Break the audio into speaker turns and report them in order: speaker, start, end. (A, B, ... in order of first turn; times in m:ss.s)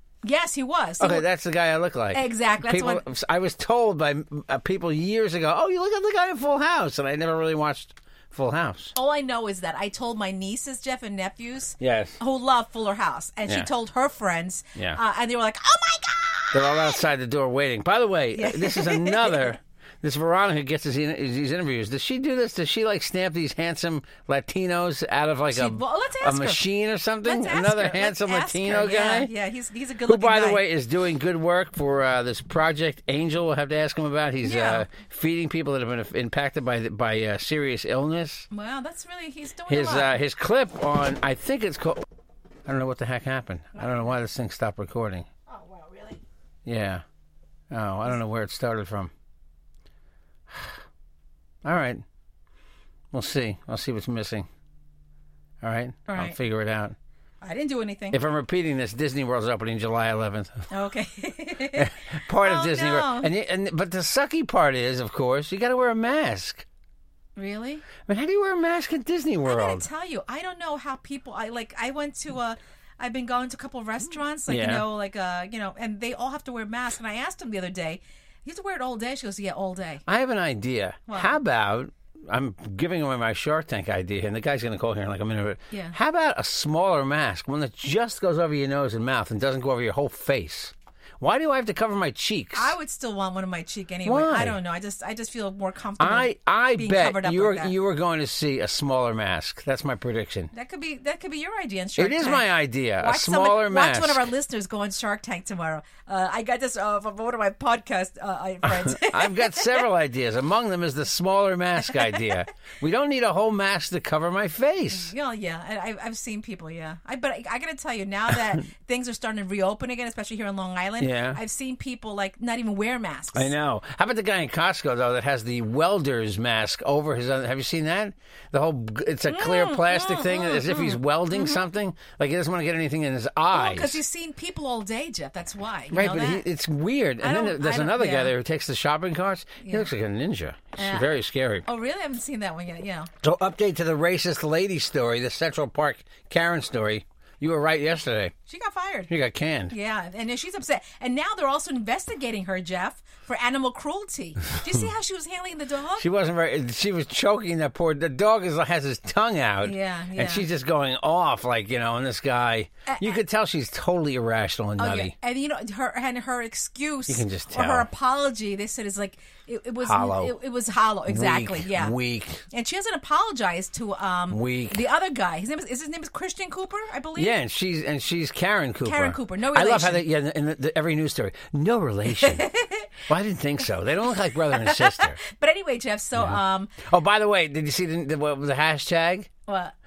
0:00.2-0:01.2 A
0:01.0-0:08.9 B
0:02.1-0:03.0 A
0:08.9-0:17.0 A
0:11.8-0:12.2 B
0:16.5-0:29.3 B
0:18.4-0:19.6 A
0:25.5-0:26.6 A
0:27.2-0:30.6 A
0:30.1-0:38.5 B
0:34.4-0:34.8 A
0:38.5-0:40.1 A
0:39.7-0:42.0 B
0:42.6-0:45.3 B
0:43.8-0:44.2 A
0:45.5-0:46.2 A
0:46.6-0:47.0 B
0:47.7-0:49.1 B
0:50.5-0:50.8 B
0:51.6-0:52.0 B
0:53.1-0:54.5 B
0:55.6-0:57.0 B
0:56.1-0:56.4 A
0:57.4-0:58.2 A
0:58.1-1:00.7 B
1:00.7-1:01.9 A
1:01.8-1:06.6 B
1:02.4-1:03.3 A
1:07.4-1:07.9 A
1:08.0-1:09.8 B
1:09.4-1:20.0 A
1:14.5-1:14.8 B
1:20.1-1:32.7 B
1:21.1-1:21.4 A
1:25.7-1:26.0 A
1:32.5-1:37.7 A
1:34.0-1:34.6 B
1:36.0-1:40.5 B
1:40.5-1:42.4 A
1:42.0-1:44.2 B
1:43.0-1:49.8 A
1:48.6-1:55.1 B
1:52.0-1:52.3 A
1:54.9-2:03.5 A
2:01.0-2:01.4 B
2:03.3-2:14.0 B
2:09.3-2:11.6 A
2:13.5-2:16.4 A
2:15.9-2:21.6 B
2:17.2-2:18.3 A
2:19.6-2:19.9 A
2:20.8-2:21.1 A
2:21.6-2:23.1 A
2:23.2-2:28.3 B
2:28.5-2:29.1 A
2:29.1-2:29.7 B
2:29.7-2:36.0 A
2:36.0-2:45.1 B
2:39.6-2:40.4 A
2:42.9-2:43.2 A
2:44.8-2:52.0 A
2:47.1-2:47.9 B
2:49.8-2:50.4 B
2:51.1-2:52.4 B
2:52.5-2:57.4 A
2:54.3-2:54.8 B
2:57.2-3:02.5 B
2:58.8-3:00.0 A
3:02.2-3:02.9 A
3:03.1-3:05.2 B
3:04.5-3:06.7 A
3:06.2-3:09.3 B
3:09.5-3:09.7 A